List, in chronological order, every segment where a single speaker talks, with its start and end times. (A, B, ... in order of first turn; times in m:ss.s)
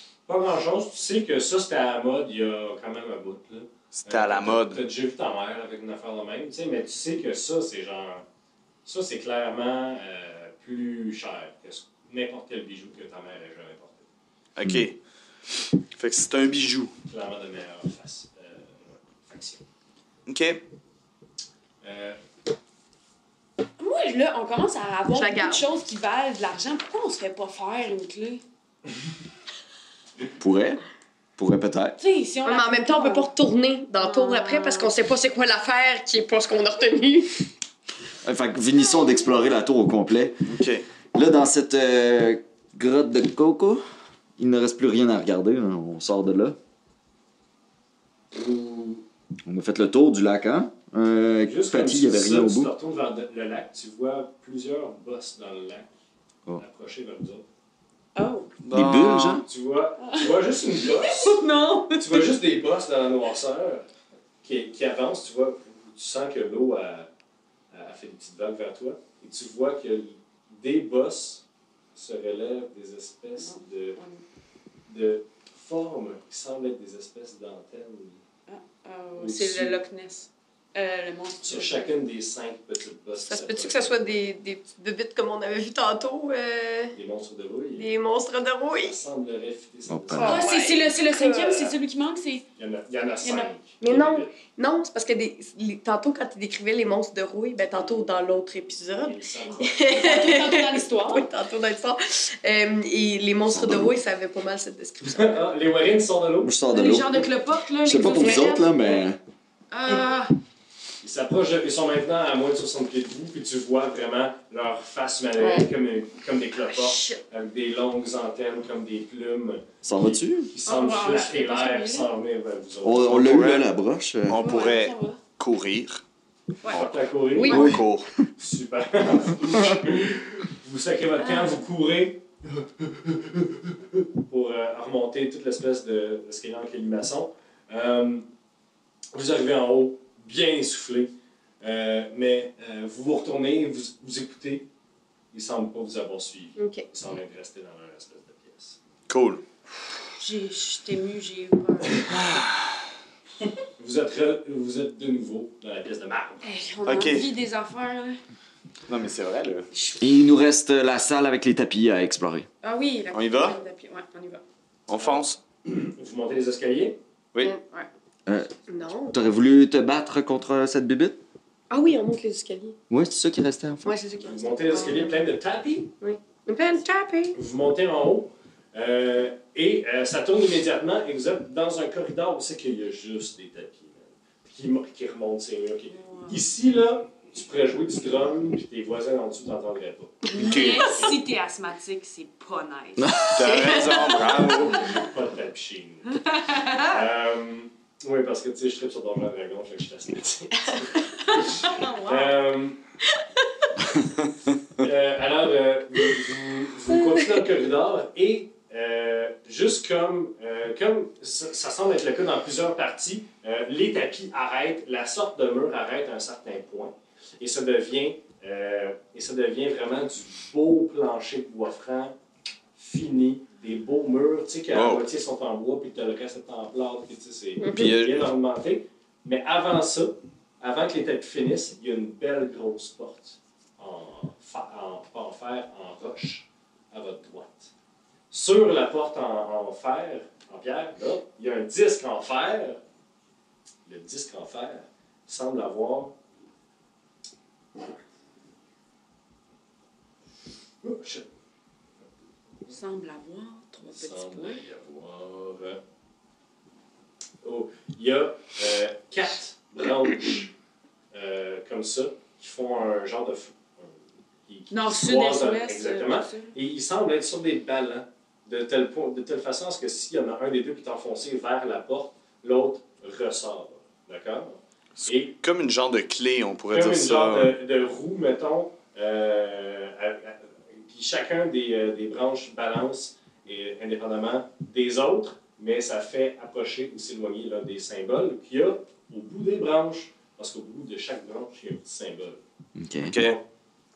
0:00.3-0:08.2 A
0:03.9-0:04.8 B
0:08.8-0:14.0 A
0:14.6-0:15.0 B
0:16.0-0:16.9 B
0:17.1-0:19.6 A
0:20.3-0:20.6 B
0:21.8-0:22.2 A
0:23.8-0:28.4 C
0:25.1-0:25.6 D
0:30.4-0:30.8 E
0:31.4-0:32.0 E
0:32.0-0:33.3 C
0:32.4-0:37.4 D
0:34.0-0:34.9 C
0:38.2-0:40.4 E
0:40.4-0:40.8 B
0:41.1-0:43.8 E
0:44.4-0:46.6 E
0:48.3-0:49.0 A
0:49.4-0:52.7 E
0:51.4-0:55.9 A
0:56.6-0:57.4 A
0:58.1-0:58.5 C
0:58.6-0:59.4 B
0:58.7-0:59.4 E
0:59.4-1:01.4 A
1:00.0-1:00.3 C
1:00.9-1:02.2 C
1:01.9-1:03.8 A
1:04.4-1:07.1 A
1:07.7-1:11.4 A
1:11.9-1:14.0 A
1:13.4-1:14.2 C
1:14.9-1:18.2 A
1:18.5-1:21.9 C
1:19.2-1:19.8 A
1:21.4-1:24.2 A
1:23.3-1:26.9 D
1:26.9-1:27.9 A
1:27.8-1:29.0 D
1:28.8-1:30.6 A
1:29.9-1:30.4 E
1:30.2-1:31.7 D
1:30.2-1:32.4 C
1:32.6-1:34.3 A
1:33.2-1:33.5 C
1:33.8-1:45.4 D
1:38.9-1:39.8 A
1:39.8-1:41.3 C
1:43.5-1:43.9 E
1:45.0-1:46.5 A
1:46.4-1:47.3 E
1:46.7-1:48.8 C
1:47.8-1:49.2 E
1:48.2-1:49.0 D
1:49.7-1:50.3 C
1:51.0-2:03.6 A
1:56.6-1:57.2 C
1:59.8-2:00.5 E
2:00.6-2:02.1 C
2:02.8-2:04.4 E
2:03.1-2:03.6 B
2:04.3-2:06.0 B
2:04.4-2:05.2 C
2:06.6-2:07.6 C
2:06.7-2:08.1 B
2:06.7-2:07.7 A
2:07.4-2:07.8 D
2:07.5-2:07.9 E
2:08.4-2:18.3 A
2:09.6-2:09.9 E
2:11.2-2:11.5 C
2:19.1-2:24.7 A
2:25.3-2:28.8 A
2:26.6-2:26.8 D
2:29.1-2:29.4 B
2:30.2-2:32.0 C
2:31.9-2:32.2 A
2:32.1-2:32.6 B
2:33.8-2:36.4 A
2:36.4-2:38.2 C
2:36.8-2:37.3 B
2:38.9-2:39.7 B
2:39.7-2:40.0 C
2:40.0-2:42.5 E
2:42.6-2:44.4 C
2:43.1-2:43.6 B
2:44.9-2:45.4 B
2:45.6-2:47.0 A
2:48.2-2:48.5 E
2:48.7-2:49.2 D
2:49.1-2:51.2 E
2:51.7-2:52.8 D
2:52.9-2:53.9 E
2:53.8-2:55.2 D
2:54.2-2:55.9 A
2:56.0-2:57.4 D
2:57.3-3:11.1 A
3:06.0-3:06.4 C
3:10.3-3:14.6 C
3:10.3-3:11.1 B
3:13.0-3:13.5 E
3:13.3-3:15.0 B
3:13.4-3:14.4 D
3:14.7-3:22.8 A
3:16.4-3:16.8 C
3:21.6-3:22.4 C
3:24.8-3:42.1 A
3:42.8-3:57.7 A
3:44.7-3:45.0 B
3:47.6-3:47.9 D
3:47.7-3:48.2 B
3:58.3-4:02.8 A
4:03.8-4:06.1 A
4:10.8-4:11.3 A
4:12.7-4:14.6 C
4:13.9-4:15.8 A
4:17.4-4:20.5 A
4:21.1-4:35.3 A
4:24.7-4:26.5 C
4:35.0-4:37.5 B
4:36.7-4:52.4 A
4:52.8-4:53.2 E
4:53.1-4:53.4 B
4:53.2-4:53.4 A